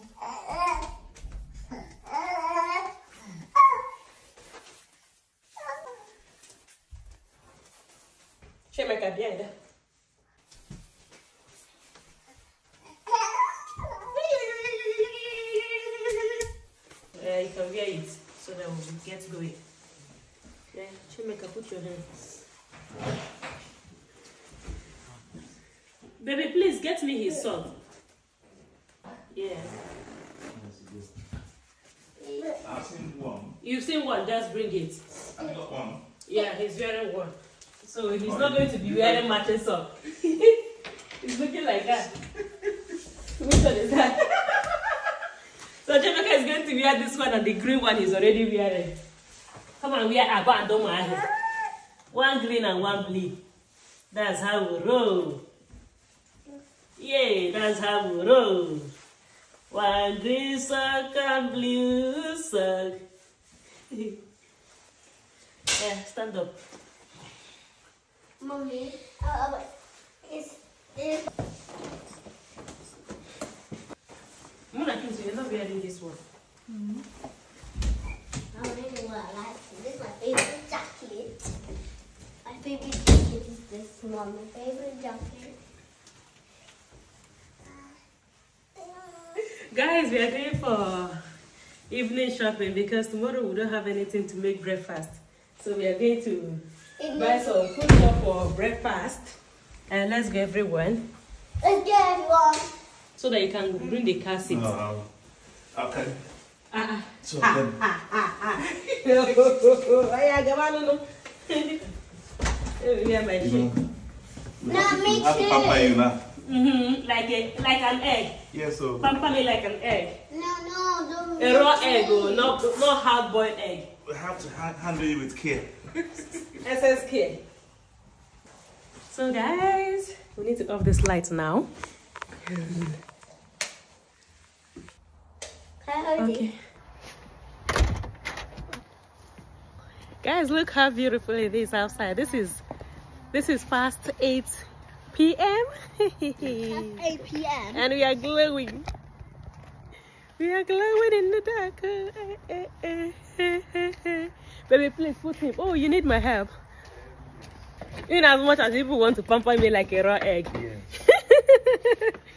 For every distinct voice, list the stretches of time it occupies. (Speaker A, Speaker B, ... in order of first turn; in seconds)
Speaker A: 0.5-0.8, 32.2-32.6, 68.4-69.7, 70.2-71.3, 78.5-81.3, 82.5-85.5, 88.8-89.3, 97.0-97.5, 101.6-102.7, 114.6-116.0, 120.3-122.5, 135.8-136.5, 146.6-147.8
Speaker B: 8.7-9.5, 14.2-15.8, 17.1-19.6, 20.7-22.1, 26.2-27.7, 29.3-29.7, 33.6-35.0, 36.3-40.6, 41.2-42.1, 43.4-44.9, 45.8-48.9, 49.8-51.3, 52.1-53.4, 54.1-55.4, 57.0-58.9, 59.7-63.0, 63.9-64.2, 65.8-66.5, 74.7-76.2, 89.4-91.2, 91.9-99.4, 99.9-101.0, 103.2-104.7, 106.7-111.8, 112.8-113.7, 116.4-118.4, 119.0-120.2, 121.4-123.9, 126.5-127.4, 129.1-131.7, 132.5-132.9, 136.2-136.6, 140.2-142.6, 143.3-147.1, 147.7-148.9, 150.4-156.5, 158.1-162.1
Speaker C: 30.5-31.1, 32.6-33.5, 35.4-36.0, 38.2-39.3, 104.5-105.1, 105.7-106.2, 107.2-107.8, 113.4-113.8, 114.6-116.2, 118.5-119.1, 124.0-125.7, 160.5-160.9